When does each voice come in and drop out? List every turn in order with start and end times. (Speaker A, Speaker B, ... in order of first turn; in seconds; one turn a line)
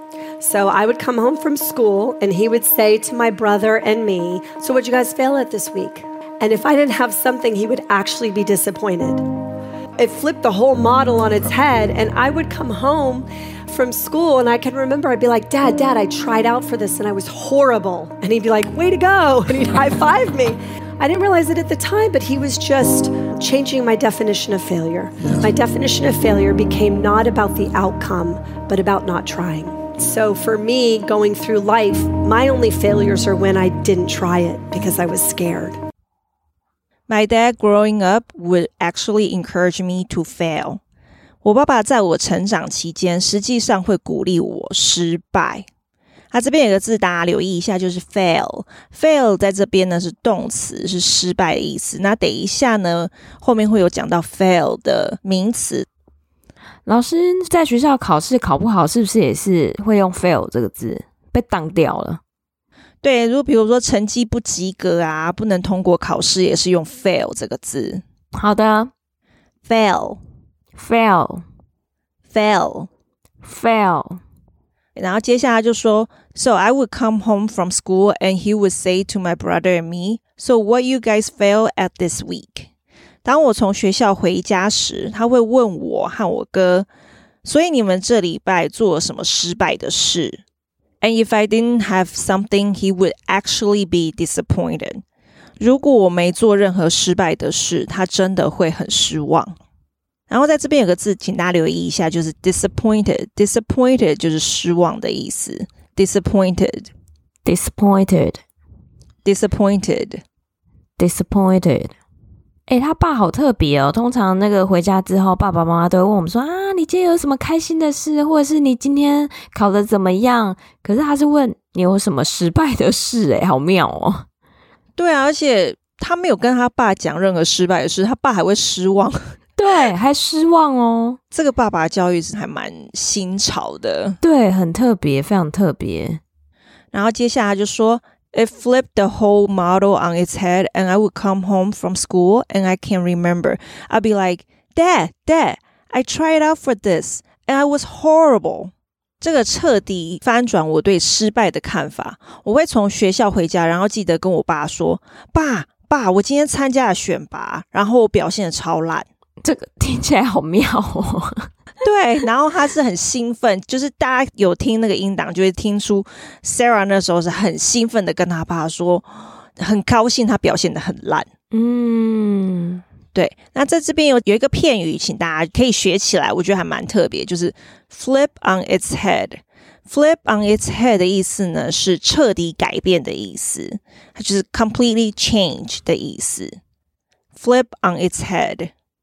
Speaker A: 0.4-9.2
Speaker A: 10.0-35.8
Speaker B: 37.1-40.8
Speaker B: 41.4-45.7
Speaker B: 46.3-55.9
Speaker C: 56.9-62.2
Speaker B: 63.0-68.0
Speaker C: 68.3-68.9
Speaker B: 69.7-70.2
Speaker C: 70.7-71.4
Speaker B: 72.3-72.9
Speaker C: 73.4-74.2
Speaker B: 75.0-82.7
Speaker B: 83.2-86.9
Speaker B: 87.4-90.4
Speaker B: 91.0-95.0
Speaker B: 95.6-99.5
Speaker B: 100.3-106.9
Speaker C: 107.4-108.4
Speaker B: 109.2-110.2
Speaker C: 111.0-111.9
Speaker C: 112.7-124.2
Speaker B: 125.0-129.3
Speaker C: 129.6-131.2
Speaker B: 131.3-134.2
Speaker C: 134.2-136.2
Speaker B: 136.9-159.1
Speaker C: 159.4-161.5
Speaker B: 161.8-171.3
Speaker C: 171.5-172.8
Speaker B: 173.1-186.6
Speaker B: 187.3-188.7